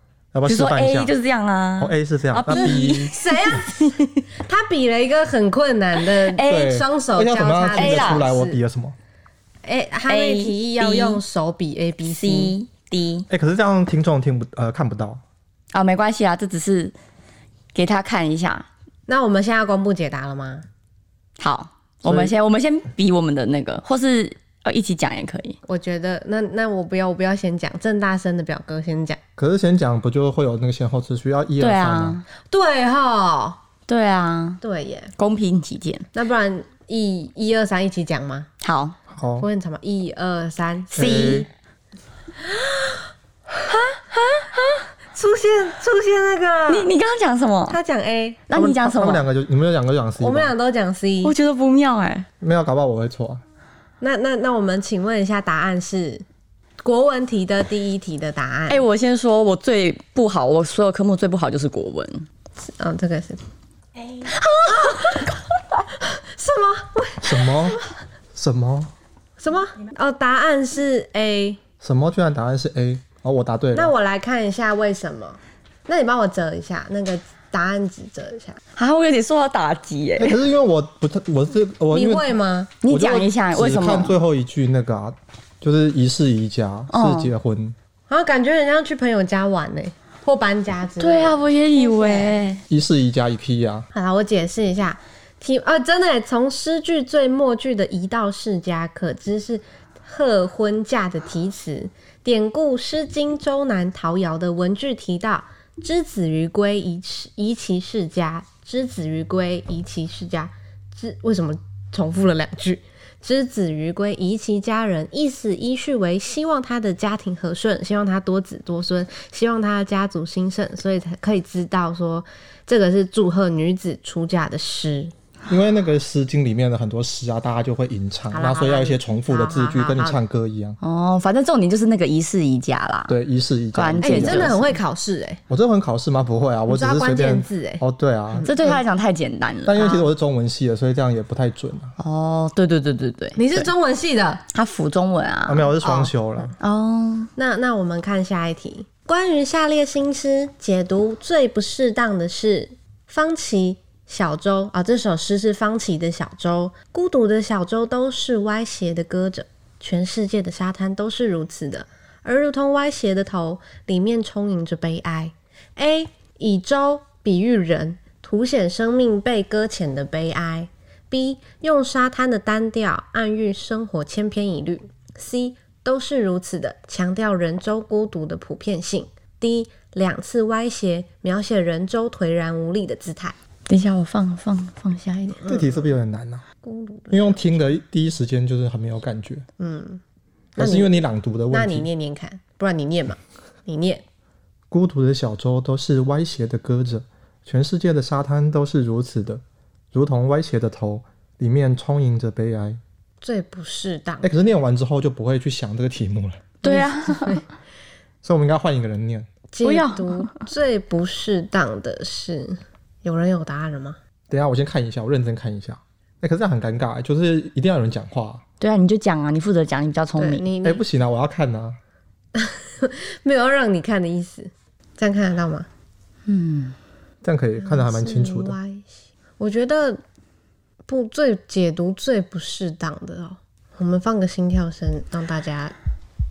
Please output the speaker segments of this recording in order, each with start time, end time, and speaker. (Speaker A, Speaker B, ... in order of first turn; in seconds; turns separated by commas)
Speaker A: 0.3-1.1, Speaker B: 0.5-3.7, Speaker A: 1.8-3.1, Speaker C: 2.5-8.6, Speaker B: 6.0-6.7, Speaker A: 6.4-8.9, Speaker B: 7.7-8.3, Speaker C: 9.6-12.5, Speaker B: 10.1-11.2, Speaker B: 12.0-13.3, Speaker A: 13.3-15.2, Speaker B: 15.7-16.9, Speaker B: 17.7-18.7, Speaker C: 19.1-20.6, Speaker B: 21.4-25.6, Speaker A: 22.0-22.3, Speaker C: 25.6-29.2, Speaker A: 29.4-32.2, Speaker B: 31.6-32.2, Speaker C: 32.5-33.6, Speaker B: 33.9-34.6, Speaker C: 34.6-35.1, Speaker B: 35.2-36.0, Speaker C: 36.1-38.5, Speaker B: 38.6-39.0, Speaker A: 39.1-39.5, Speaker C: 39.4-41.4, Speaker B: 41.0-41.5, Speaker A: 41.0-41.5, Speaker C: 42.4-43.0, Speaker B: 43.7-44.9, Speaker C: 45.1-46.9, Speaker B: 46.7-47.8, Speaker C: 47.7-48.4, Speaker B: 48.5-49.2, Speaker A: 48.5-50.5, Speaker C: 50.2-51.3, Speaker B: 51.2-52.3, Speaker A: 52.4-53.4, Speaker C: 54.0-56.2, Speaker C: 56.8-58.8, Speaker B: 58.7-62.2, Speaker C: 62.6-63.4, Speaker B: 64.2-65.9, Speaker C: 64.7-65.3, Speaker C: 66.0-67.9, Speaker A: 67.2-67.8, Speaker A: 68.3-68.9, Speaker C: 69.4-71.6, Speaker A: 71.8-73.9, Speaker C: 73.7-78.6, Speaker B: 78.8-80.4, Speaker A: 80.2-82.3, Speaker C: 81.9-82.7, Speaker B: 82.8-84.2, Speaker A: 82.8-87.8, Speaker B: 86.9-87.3, Speaker C: 88.1-92.3, Speaker B: 91.0-92.6, Speaker A: 92.7-93.9, Speaker C: 93.9-125.1, Speaker A: 125.5-130.8, Speaker C: 128.3-130.2, Speaker B: 130.8-133.2, Speaker A: 133.1-134.7, Speaker B: 133.7-134.6, Speaker C: 134.0-135.4, Speaker A: 135.5-138.4, Speaker C: 136.7-138.8, Speaker B: 138.4-139.9, Speaker A: 139.7-141.9, Speaker C: 139.8-140.0, Speaker B: 142.0-143.7, Speaker C: 143.3-144.4, Speaker B: 144.5-145.7, Speaker A: 145.5-146.5, Speaker C: 145.8-146.5, Speaker B: 146.6-147.3, Speaker C: 147.3-183.3, Speaker B: 183.7-185.4, Speaker C: 185.4-185.7, Speaker A: 185.4-186.4, Speaker C: 186.6-187.8, Speaker A: 187.1-189.5, Speaker C: 189.6-190.0, Speaker C: 190.6-191.0, Speaker A: 190.6-191.9, Speaker C: 191.5-194.0, Speaker A: 194.7-202.8, Speaker C: 203.2-204.3, Speaker A: 204.2-206.5, Speaker B: 206.6-207.4, Speaker C: 206.6-207.4, Speaker A: 208.2-209.3, Speaker C: 209.5-214.0, Speaker B: 209.6-210.4, Speaker A: 214.3-218.4, Speaker B: 218.6-220.5, Speaker C: 220.2-220.8, Speaker A: 220.6-221.8, Speaker C: 222.3-225.7, Speaker B: 226.3-226.8, Speaker A: 227.2-228.6, Speaker C: 227.6-230.0, Speaker C: 230.9-235.7